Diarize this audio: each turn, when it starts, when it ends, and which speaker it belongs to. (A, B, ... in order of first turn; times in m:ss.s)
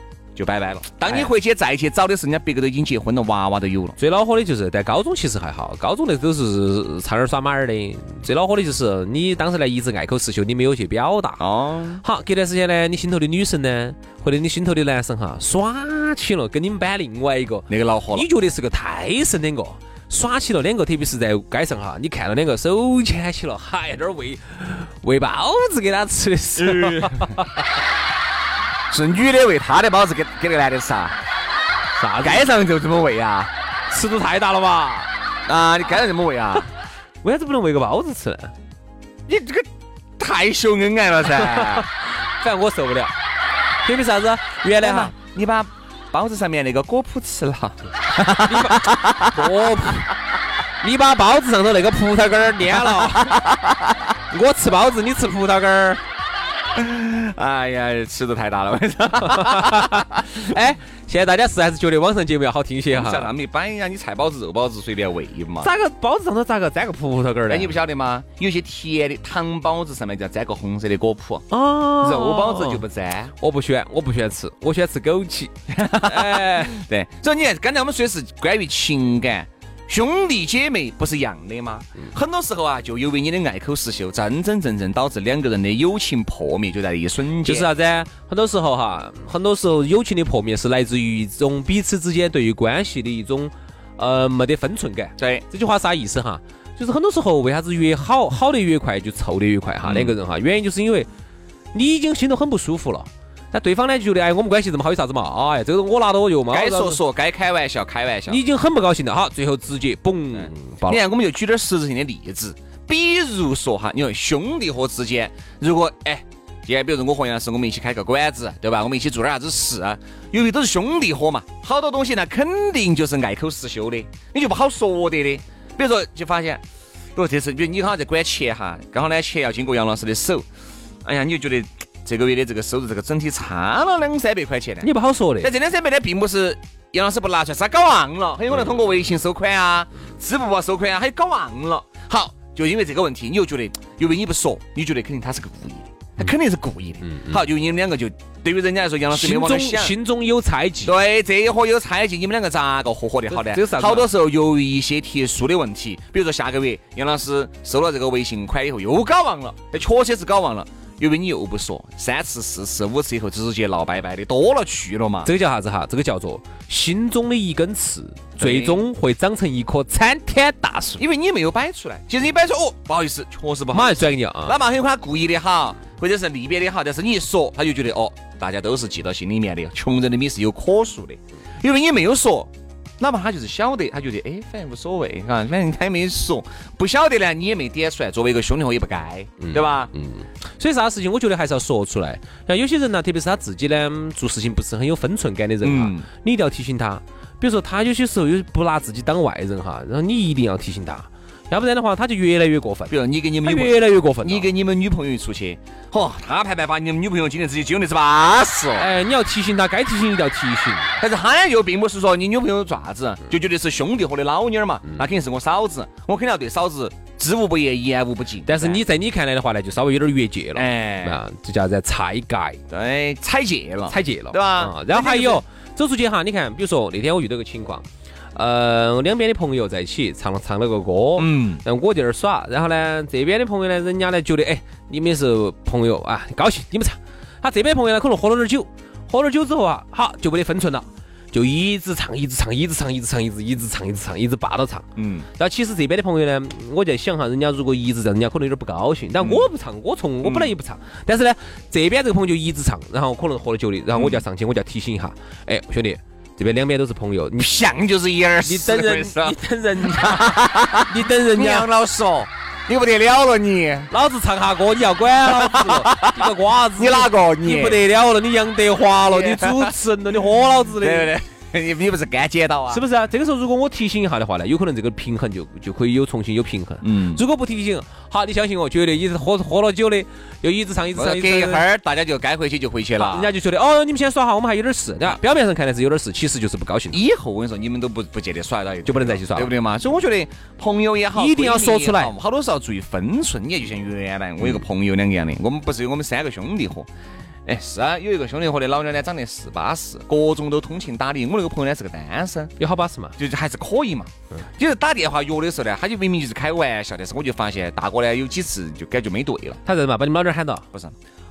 0:00.4-0:04.0 A
0:04.0-0:11.4 B
0:11.4-0:12.0 A
0:12.0-0:27.5 B
0:17.7-0:18.3 A
0:26.6-0:27.4 A
0:28.9-0:31.2 A
0:32.0-0:32.5 B
0:32.2-0:33.5 A
0:33.9-0:35.1 B
0:35.5-0:36.7 A
0:37.2-0:38.5 B
0:39.3-0:39.7 A
0:40.2-0:41.9 A
0:41.4-0:41.9 B
0:42.4-0:43.1 B
0:43.8-0:45.1 B
0:44.8-0:49.4 A
0:48.4-0:50.1 B
0:50.8-0:53.3 B
0:52.8-0:53.9 A
0:54.3-0:56.0 B
0:56.8-1:00.5 A
0:59.2-1:03.3 B
1:02.9-1:05.7 A
1:05.6-1:07.8 B
1:07.5-1:11.5 A
1:11.5-1:12.8 B
1:12.0-1:13.3 A
1:13.4-1:16.7 B
1:15.8-1:27.7 A
1:27.4-1:41.1 B
1:35.2-1:35.4 A
1:39.8-1:40.2 A
1:41.7-1:47.0 B
1:46.5-1:48.4 A
1:48.3-1:51.0 B
1:50.4-2:06.6 A
2:07.2-2:10.4 A
2:11.0-2:14.9 A
2:14.8-2:15.5 B
2:15.4-2:30.0 A
2:29.1-2:30.9 B
2:30.8-2:45.3 A
2:33.3-2:34.1 B
2:45.2-2:51.0 B
2:48.4-2:48.9 A
2:51.0-3:02.5 A
2:53.7-2:54.6 B
3:03.0-3:09.9 A
3:09.4-3:24.5 B
3:15.6-3:16.1 A
3:22.9-3:28.9 A
3:28.8-3:30.9 B
3:31.0-3:38.8 A
3:38.4-3:42.6 B
3:40.6-3:41.2 A
3:42.7-3:45.4 A
3:43.9-4:04.8 B
3:51.2-3:51.6 A
4:05.0-4:05.3 A
4:05.4-4:17.6 B
4:09.2-4:09.5 A
4:10.2-4:10.6 A
4:14.0-4:14.2 A
4:17.4-4:23.9 A
4:18.4-4:21.7 B
4:23.9-4:31.1 B
4:25.2-4:27.8 A
4:29.1-4:29.8 A
4:30.8-4:32.8 A
4:32.7-4:41.6 B
4:36.8-4:37.2 A
4:41.0-4:43.3 A
4:43.0-4:47.0 B
4:46.9-4:56.9 A
4:48.9-4:49.5 B
4:51.1-4:52.1 B
4:57.5-5:02.5 A
5:02.6-5:03.1 B
5:03.2-5:09.6 A
5:09.7-5:10.6 B